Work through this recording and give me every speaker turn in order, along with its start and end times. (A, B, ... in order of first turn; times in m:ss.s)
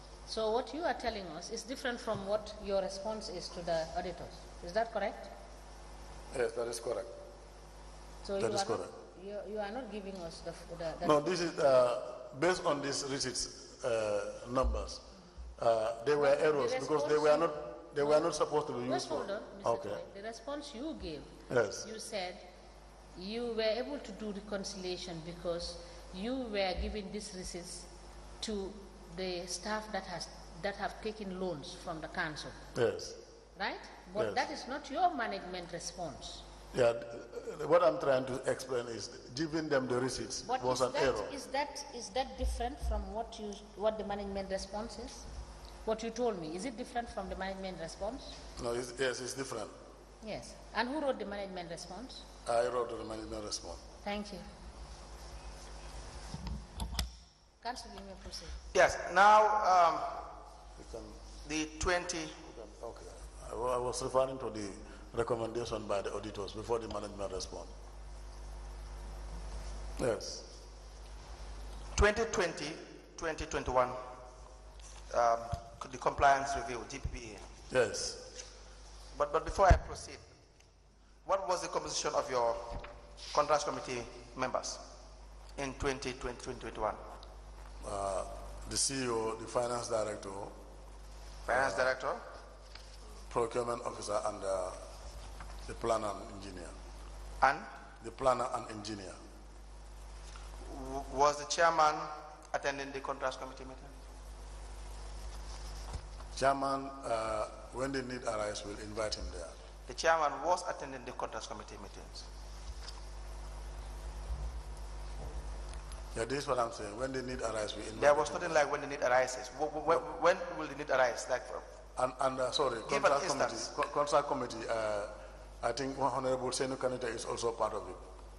0:00.3-0:05.3 A
0:06.3-0:07.1 B
0:08.2-0:11.5 A
0:08.4-0:08.9 B
0:11.0-0:15.0 B
0:15.6-0:20.0 B
0:16.1-0:18.3 A
0:18.9-0:22.4 A
0:21.5-0:21.9 B
0:23.2-0:27.9 A
0:28.4-0:32.6 A
0:32.7-0:33.2 B
0:33.6-0:36.4 A
0:34.2-0:34.5 B
0:36.7-0:41.3 B
0:40.4-0:45.3 A
0:45.8-0:48.4 A
0:48.6-0:49.7 B
0:50.2-0:52.2 A
0:52.5-0:53.8 B
0:54.0-0:54.5 A
0:57.6-0:58.6 A
0:58.7-1:00.2 C
1:00.8-1:01.2 B
1:01.4-1:02.4 C
1:02.5-1:07.7 B
1:10.0-1:10.5 B
1:11.9-1:14.0 C
1:15.1-1:17.4 C
1:17.7-1:18.3 B
1:19.1-1:20.2 C
1:21.2-1:24.8 C
1:25.6-1:27.0 C
1:27.8-1:30.5 B
1:31.5-1:32.2 C
1:31.5-1:31.9 B
1:33.3-1:34.8 B
1:35.7-1:36.7 B
1:37.4-1:37.7 C
1:38.0-1:39.2 B
1:40.6-1:43.9 C
1:46.3-1:49.5 B
1:49.9-1:52.2 C
1:56.1-1:58.6 B
1:58.0-2:01.6 C
2:02.0-2:08.1 B
2:02.9-2:03.7 C